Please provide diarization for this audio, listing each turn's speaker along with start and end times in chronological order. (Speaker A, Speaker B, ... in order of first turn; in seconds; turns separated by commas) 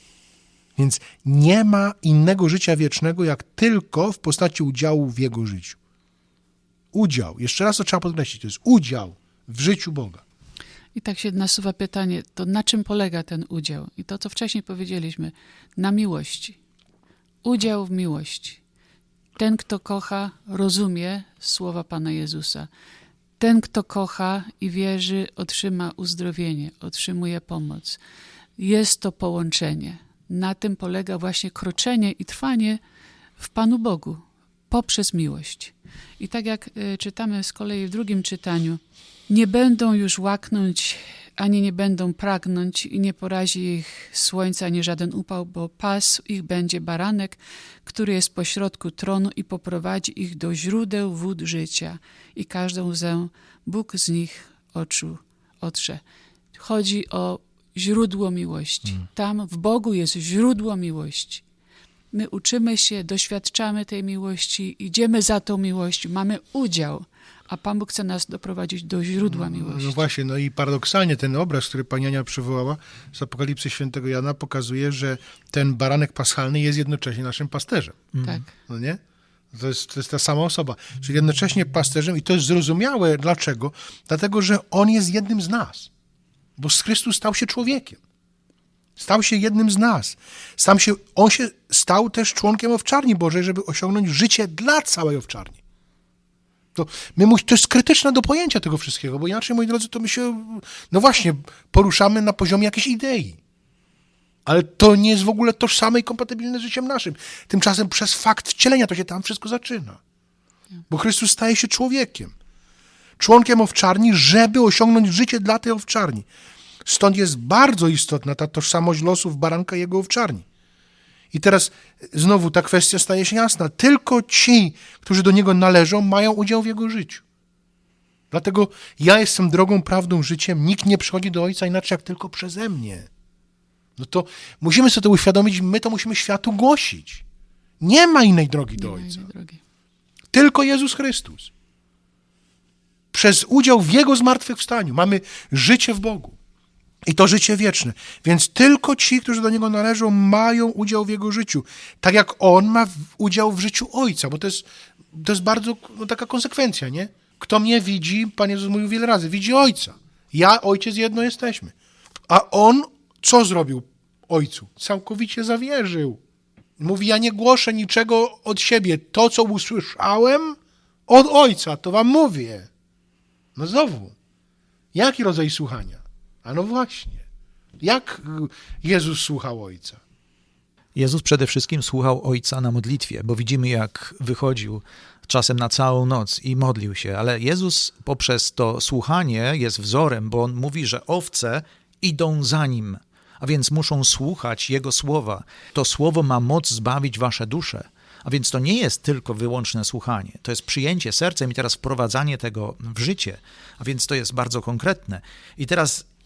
Speaker A: 0.8-5.8, Speaker A: 6.9-10.2, Speaker B: 10.9-16.6, Speaker B: 17.4-18.6, Speaker B: 19.4-22.7, Speaker B: 23.4-28.0, Speaker B: 28.6-32.8, Speaker B: 33.4-56.0, Speaker B: 56.5-61.4, Speaker B: 62.1-70.0, Speaker A: 69.2-79.0, Speaker C: 78.1-78.4, Speaker A: 79.5-85.9, Speaker A: 86.6-88.0, Speaker A: 89.0-95.6, Speaker A: 96.7-103.4, Speaker A: 104.5-110.0, Speaker A: 110.9-112.3, Speaker A: 113.2-116.3, Speaker A: 116.8-120.5, Speaker A: 121.3-127.2, Speaker A: 128.3-133.1, Speaker A: 134.0-137.2, Speaker A: 137.8-139.3, Speaker B: 138.8-139.6, Speaker A: 140.3-141.5, Speaker A: 143.1-146.3, Speaker A: 147.0-161.7, Speaker A: 162.3-166.2, Speaker A: 166.8-172.7, Speaker A: 173.6-174.1, Speaker A: 174.9-177.2, Speaker A: 177.8-180.0, Speaker C: 180.9-206.1